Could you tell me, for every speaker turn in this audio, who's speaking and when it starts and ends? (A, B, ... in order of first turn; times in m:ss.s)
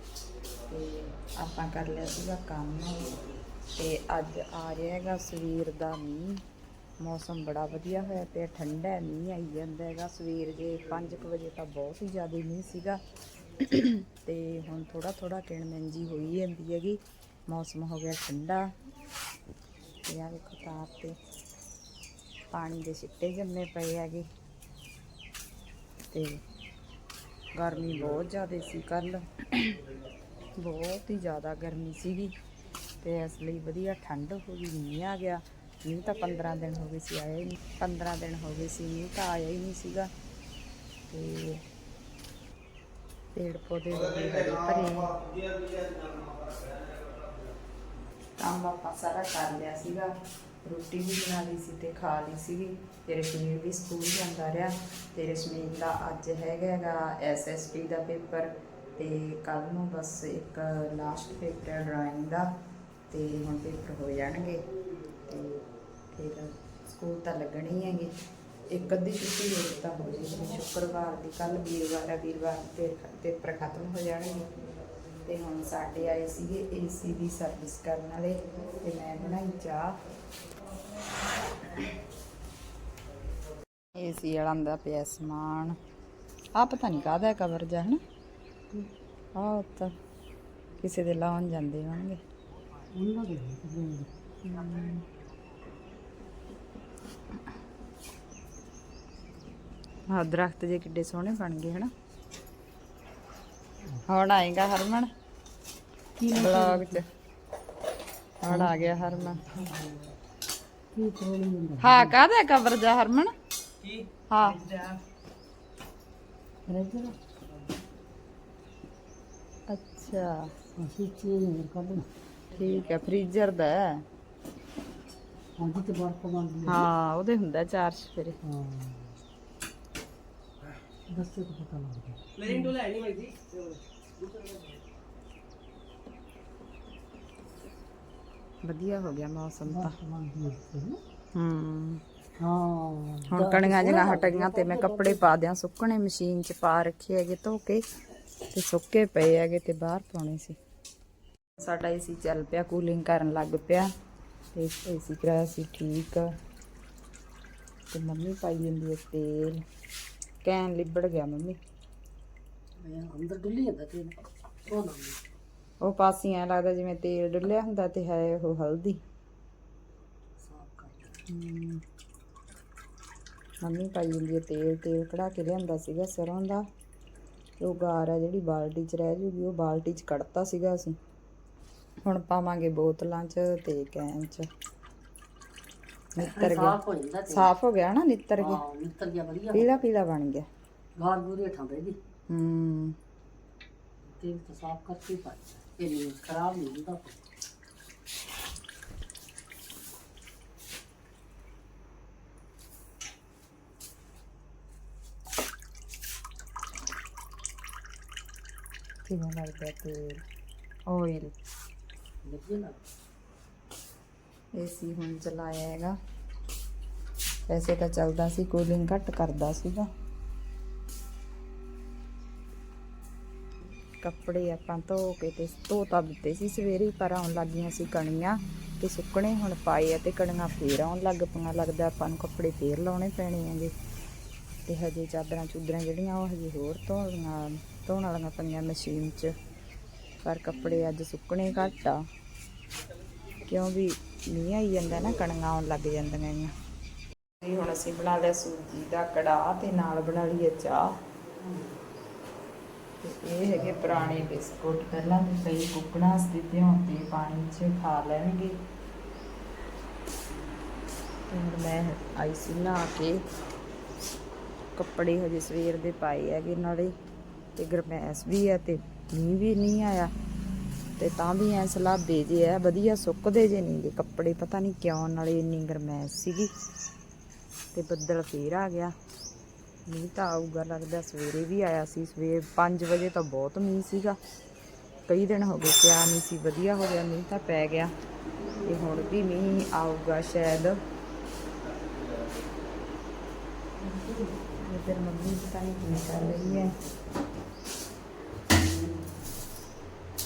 0:00.7-0:03.2 A
0:03.8-0:06.4 A
0:07.0-0:13.0 A
0:13.6-0:18.7 A
0:20.1-0:21.2 A
0:22.5-0:24.3 A
0:26.1-0:26.4 A
0:27.6-0:29.8 A
0:30.6-0:32.3 A
0:33.0-0:40.1 A
0:41.1-0:41.6 A
0:43.3-0:45.3 A
0:48.4-0:50.1 A
0:50.6-1:02.5 A
1:03.1-1:04.6 A
1:05.3-1:08.1 A
1:08.7-1:14.5 A
1:15.2-1:20.0 A
1:24.0-1:25.8 A
1:26.6-1:28.0 A
1:29.4-1:29.9 A
1:30.8-1:32.2 A
1:32.9-1:34.1 B
1:34.4-1:35.1 A
1:40.1-1:41.9 A
1:44.1-1:45.1 A
1:46.2-1:47.0 B
1:46.3-1:47.1 A
1:48.4-1:49.4 A
1:48.5-1:50.1 B
1:50.9-1:52.2 B
1:51.8-1:53.3 A
1:54.3-1:54.7 A
1:56.7-1:57.2 B
1:59.7-2:00.5 A
2:00.8-2:02.1 B
2:02.5-2:04.0 A
2:05.6-2:06.9 B
2:06.7-2:08.4 A
2:08.4-2:09.2 B
2:11.1-2:13.7 B
2:12.5-2:12.8 A
2:14.2-2:14.8 B
2:18.6-2:20.0 A
2:19.7-2:21.0 B
2:21.3-2:22.0 A
2:22.4-2:25.2 B
2:23.3-2:27.8 A
2:28.5-2:30.6 A
2:31.6-2:33.9 A
2:34.5-2:36.3 A
2:37.9-2:39.6 A
2:40.4-2:41.6 A
2:42.8-2:44.2 B
2:44.7-2:45.2 B
2:45.8-2:49.0 A
2:50.4-2:51.2 B
2:51.3-2:51.8 A
2:53.6-2:56.6 A
2:57.6-3:01.0 A
3:02.1-3:04.5 A
3:06.2-3:06.8 A
3:06.2-3:07.5 B
3:07.3-3:08.6 A
3:08.4-3:09.8 B
3:09.5-3:10.5 A
3:11.0-3:12.0 B
3:12.3-3:13.0 A
3:14.0-3:17.2 B
3:29.1-3:30.2 A
3:30.9-3:31.4 A
3:32.2-3:32.8 B
3:34.6-3:36.0 A
3:37.5-3:39.9 A
3:44.0-3:53.7 A
3:54.7-3:59.3 A
4:00.2-4:02.0 A
4:03.5-4:06.5 A
4:07.4-4:10.9 A
4:11.4-4:11.7 B
4:13.0-4:18.6 A
4:21.3-4:23.2 A
4:24.8-4:26.9 A
4:27.6-4:30.1 A
4:31.0-4:36.5 A
4:37.7-4:38.9 A
4:39.9-4:44.2 A
4:45.1-4:47.9 A
4:48.6-4:50.8 A
4:53.8-4:54.6 B
4:54.6-4:56.8 A
4:58.6-4:59.1 B